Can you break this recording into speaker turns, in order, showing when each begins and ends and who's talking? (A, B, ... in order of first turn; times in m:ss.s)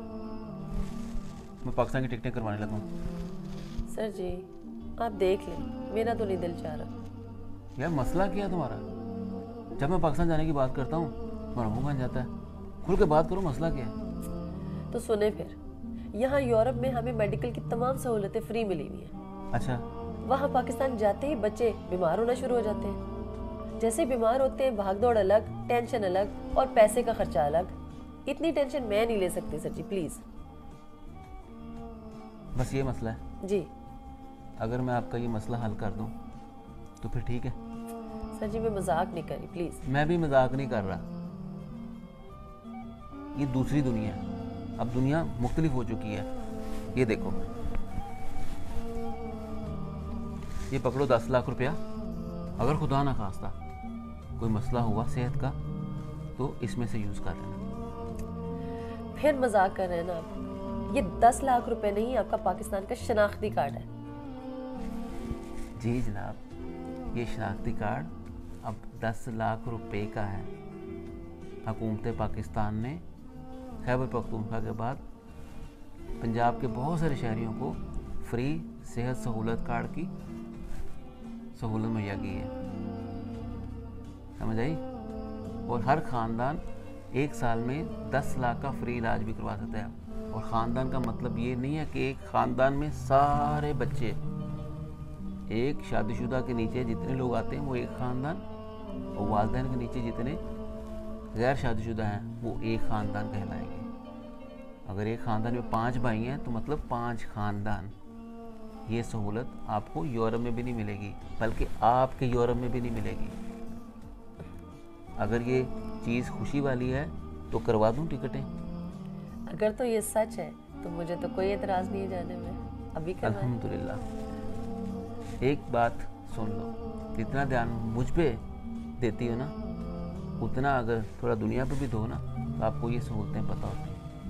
0:01.6-0:02.9 A
0:03.9-0:06.9 B
0:07.8-0:08.8 A
0:09.8-0:12.3 A
0:12.8-0:13.9 A
0:14.9-0:15.6 B
0:16.1-0:19.1 B
0:19.5-0:19.8 A
0:20.2-0:23.0 B
0:23.8-0:27.7 B
0:28.3-0:30.2 B
0:32.6-0:33.2 A
0:33.4-0:33.7 B
0:34.6-0:36.1 A
0:37.0-0:37.6 A
0:38.4-0:39.8 B
0:39.8-0:41.0 A
0:43.4-0:44.2 A
0:44.8-0:46.3 A
0:46.9-0:47.4 A
0:50.7-0:51.8 A
0:52.6-0:53.6 A
0:54.4-0:55.6 A
0:56.4-0:57.6 A
0:59.2-1:00.3 B
1:00.9-1:03.9 B
1:05.8-1:06.4 A
1:07.1-1:08.1 A
1:08.6-1:10.5 A
1:11.6-1:13.0 A
1:13.8-1:15.0 A
1:16.2-1:20.1 A
1:21.6-1:22.5 A
1:24.4-1:24.8 A
1:25.7-1:34.2 A
1:35.5-1:38.4 A
1:39.2-1:40.4 A
1:41.3-1:43.9 A
1:44.9-1:47.9 A
1:48.9-1:53.4 A
1:55.2-1:58.5 A
1:59.5-2:03.6 B
2:03.2-2:04.0 A
2:05.4-2:08.4 A
2:09.0-2:09.5 A
2:10.4-2:14.0 A